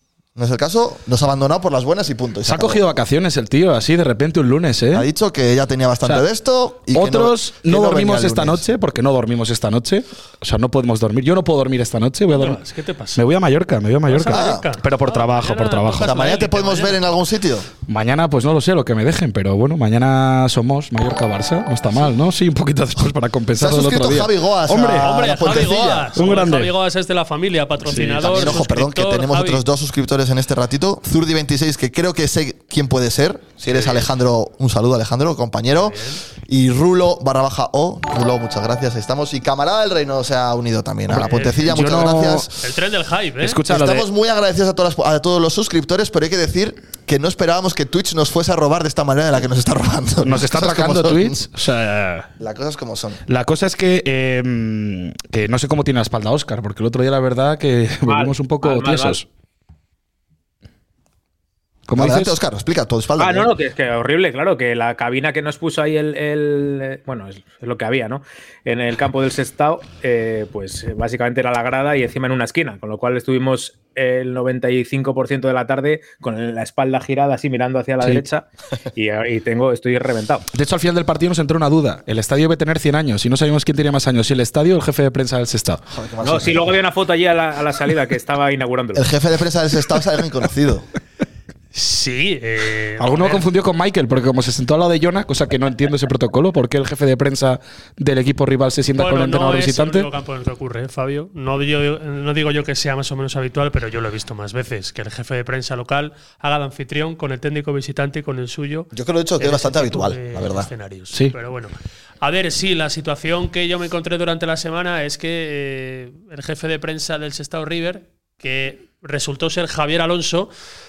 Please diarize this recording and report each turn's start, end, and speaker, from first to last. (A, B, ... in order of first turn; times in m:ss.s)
0:00.4-0:02.8 A
0:02.5-0:05.1 B
0:04.9-0:08.7 A
0:06.9-0:12.6 B
0:12.3-0:13.2 C
0:13.2-0:16.3 B
0:14.1-0:17.0 C
0:14.3-0:14.6 A
0:15.9-0:17.7 A
0:17.9-0:25.6 B
0:23.6-0:26.2 A
0:25.0-0:29.6 C
0:26.2-0:26.7 B
0:27.8-0:28.6 B
0:28.2-0:42.5 A
0:33.7-0:34.0 C
0:35.8-0:36.2 C
0:41.2-0:41.7 C
0:41.6-0:42.5 B
0:42.6-0:43.6 C
0:43.4-0:44.1 B
0:43.7-0:51.4 A
0:50.2-0:52.3 B
0:52.4-0:53.2 A
0:53.3-0:59.3 B
0:58.1-0:59.2 D
1:01.9-1:02.4 B
1:02.0-1:03.5 A
1:03.2-1:20.5 D
1:20.5-1:25.8 B
1:25.9-1:26.8 A
1:26.2-1:29.1 D
1:29.0-1:30.8 A
1:31.7-1:33.4 C
1:33.0-1:40.1 B
1:39.0-2:00.5 C
1:48.9-1:50.7 A